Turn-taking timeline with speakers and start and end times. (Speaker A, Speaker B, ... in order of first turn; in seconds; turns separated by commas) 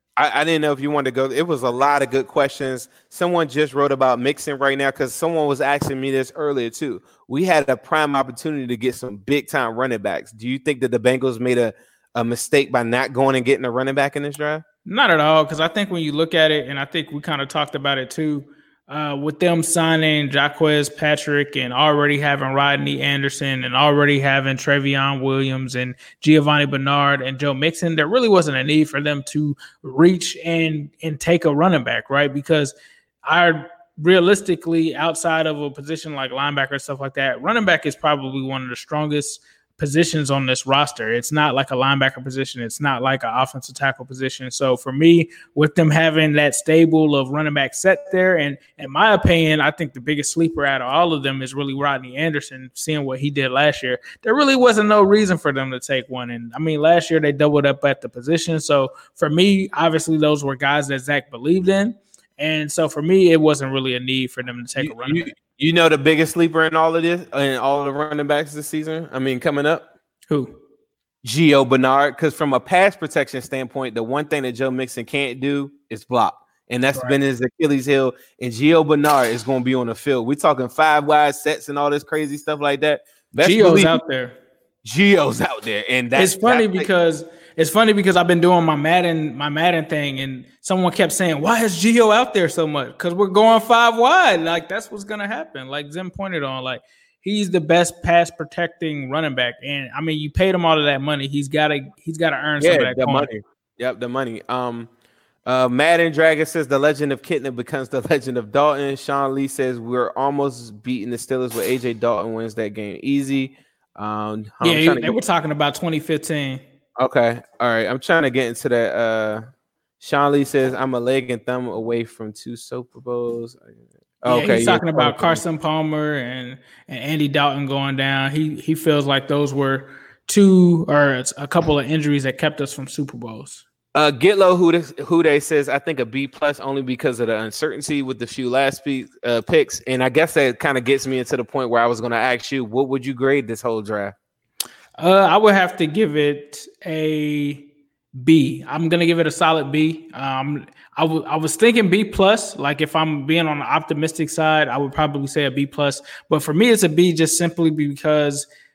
Speaker A: 0.2-14.6, Speaker B: 14.9-65.3, Speaker A: 64.8-69.9, Speaker B: 70.3-70.5, Speaker A: 71.2-84.0, Speaker B: 83.4-84.4, Speaker A: 84.8-86.9, Speaker B: 86.2-103.3, Speaker A: 102.6-104.9, Speaker A: 105.5-115.2, Speaker B: 114.6-116.6, Speaker A: 117.0-119.5, Speaker A: 120.0-125.4, Speaker B: 124.3-133.6, Speaker A: 133.9-144.2, Speaker B: 145.0-158.5